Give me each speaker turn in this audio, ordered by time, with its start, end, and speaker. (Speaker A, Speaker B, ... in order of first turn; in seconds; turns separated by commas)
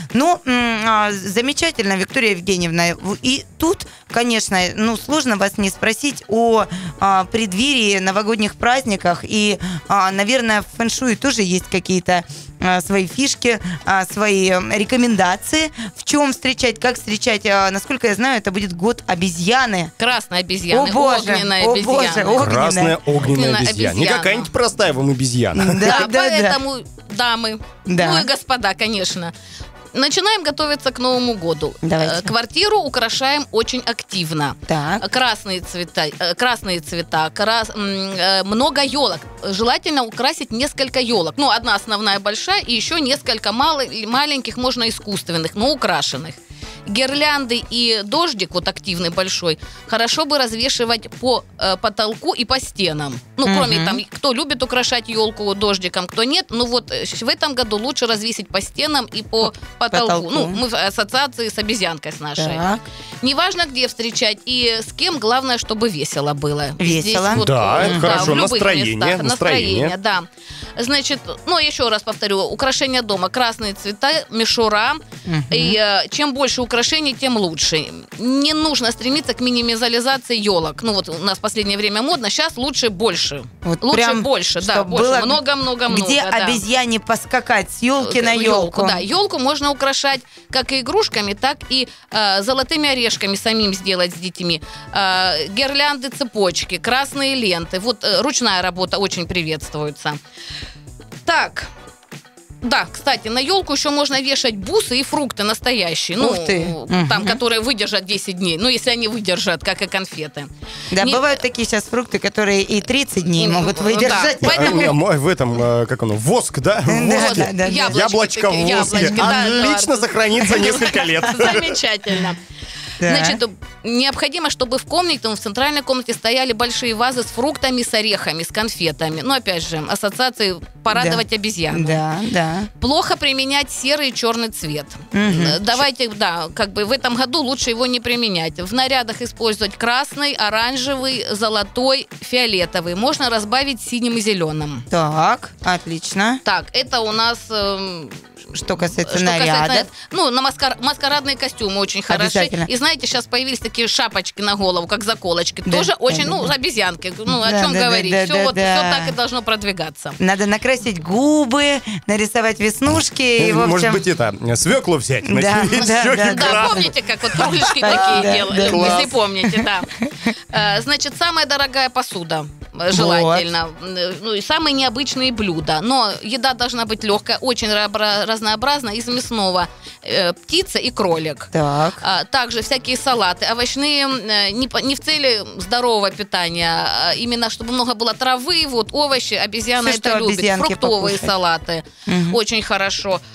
Speaker A: 0.1-19.9, Speaker B: 20.0-22.5, Speaker A: 20.7-22.9, Speaker C: 22.4-26.0, Speaker B: 23.2-24.5, Speaker A: 25.5-26.6, Speaker B: 25.8-29.3, Speaker A: 27.9-28.3, Speaker B: 29.9-62.6, Speaker A: 31.8-32.3, Speaker A: 34.7-35.0, Speaker A: 53.4-54.0, Speaker A: 59.9-60.6, Speaker A: 62.4-62.8, Speaker B: 63.2-86.6, Speaker A: 66.8-68.4, Speaker C: 67.3-69.9, Speaker A: 75.2-75.8, Speaker A: 83.6-89.0, Speaker B: 88.0-100.2, Speaker B: 101.2-101.7, Speaker B: 102.6-111.4, Speaker A: 106.2-107.4, Speaker A: 110.9-114.9, Speaker B: 113.2-114.9, Speaker C: 114.4-121.8, Speaker A: 116.8-117.9, Speaker B: 117.1-122.4, Speaker A: 118.7-119.5, Speaker A: 123.0-123.4, Speaker B: 123.0-132.0, Speaker A: 130.9-132.7, Speaker B: 132.8-144.8, Speaker A: 135.1-135.8, Speaker A: 144.9-146.4, Speaker B: 146.4-148.3, Speaker A: 148.5-149.9, Speaker B: 148.8-160.2, Speaker A: 152.1-152.7, Speaker A: 155.7-156.5, Speaker A: 157.3-159.1, Speaker A: 160.2-164.0, Speaker C: 163.4-169.2, Speaker A: 165.2-166.8, Speaker B: 165.8-170.0, Speaker A: 167.8-170.0, Speaker B: 170.5-193.2, Speaker A: 172.9-173.5, Speaker A: 181.5-182.0, Speaker A: 189.8-191.3, Speaker A: 192.1-192.4